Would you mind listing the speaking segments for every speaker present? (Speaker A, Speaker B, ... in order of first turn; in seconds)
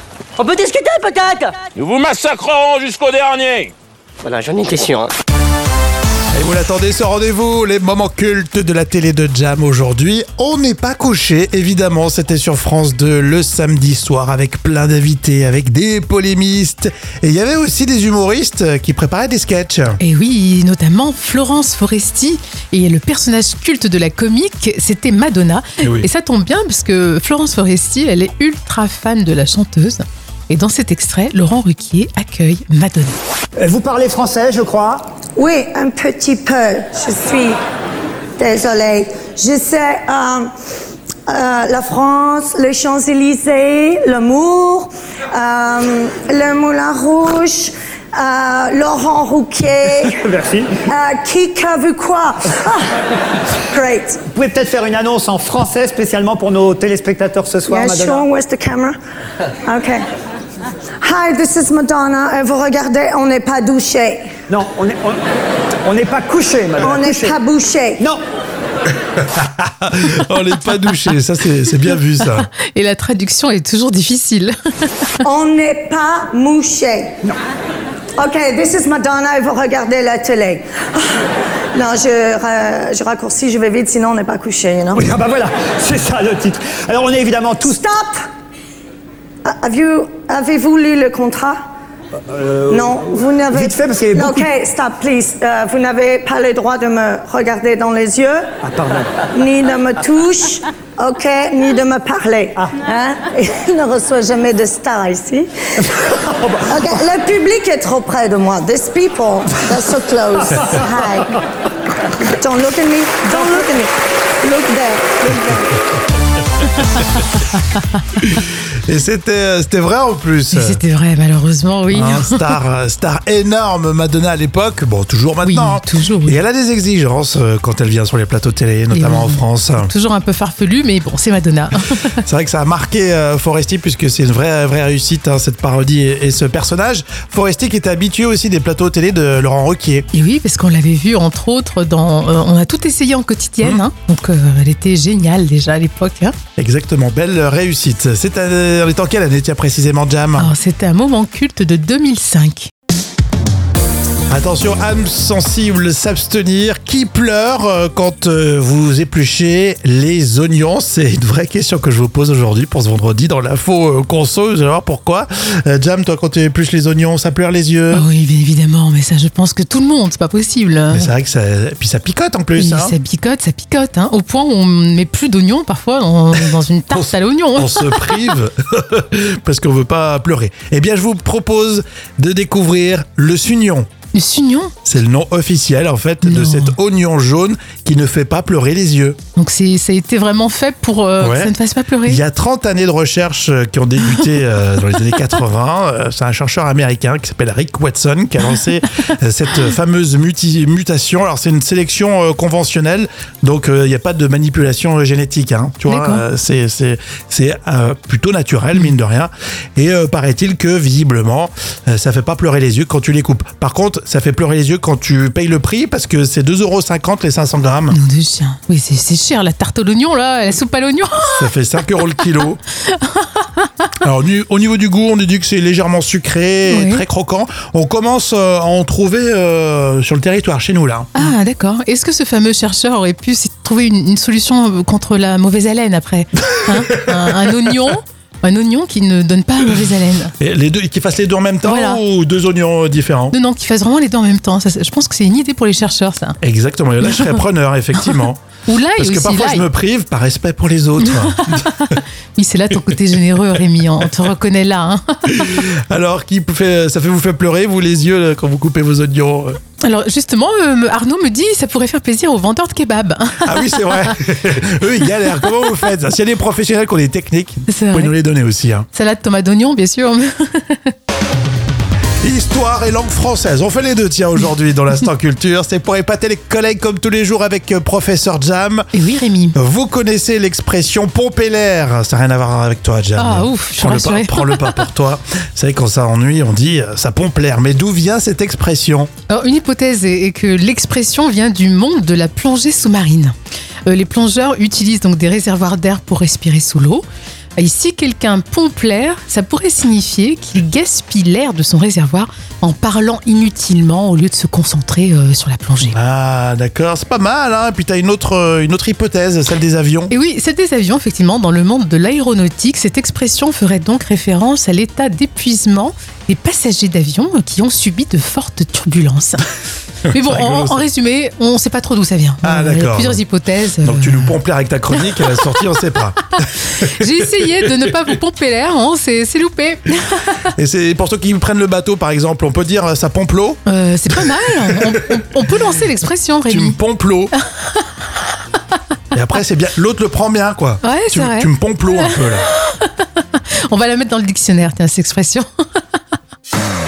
Speaker A: 0.4-1.5, 4.2-5.1
Speaker B: 1.7-3.7
Speaker C: 6.3-20.0, 25.8-26.1, 69.2-72.5, 118.2-120.8, 121.9-129.9, 132.2-140.1, 146.6-150.5, 154.3-168.0, 170.9-172.9, 176.9-183.9, 184.8-189.2, 191.2-191.5, 192.0-218.0, 221.3-222.6, 224.0-231.3, 236.7-237.2, 240.4-243.3, 246.4-248.4, 248.9-252.0, 255.3-259.6, 263.4-268.9, 272.2-278.9, 279.5-289.1, 305.8-310.1, 320.1-320.8, 322.4-323.2, 323.8-327.4, 330.5-333.6, 334.7-334.9, 336.5-337.3, 339.1-342.5
Speaker D: 20.0-33.2, 72.5-75.1, 120.5-122.6, 125.4-126.4, 128.9-132.2, 140.1-146.3, 150.4-152.7, 167.9-171.1, 172.6-178.2, 184.1-184.7, 186.2-186.8, 189.3-192.2, 205.9-206.2, 217.9-221.5, 222.9-223.7, 226.7-227.0, 231.1-240.3, 241.6-242.0, 243.3-246.4, 247.0-247.4, 248.7-249.7, 251.0-255.7, 259.8-264.1, 267.7-268.1, 268.9-270.9, 278.9-279.6, 283.2-284.9, 289.3-293.3, 293.9-297.0, 297.6-305.9, 310.1-319.4, 320.1-324.4, 325.0-325.3, 326.6-330.4, 333.6-336.8, 337.4-337.9, 340.8-345.8
Speaker E: 33.6-35.0, 50.0-50.8, 54.3-58.3, 64.5-65.2, 65.8-67.4, 84.9-87.8, 92.3-94.5, 98.6-99.2
Speaker F: 35.4-37.6, 38.4-40.5, 41.3-50.1, 50.9-53.0, 53.7-54.2, 57.7-59.0, 59.6-60.0, 61.0-64.3, 66.8-68.0, 75.2-77.2, 78.2-85.0, 87.7-88.1, 89.4-91.6, 92.7-98.5, 99.3-111.4, 112.2-115.8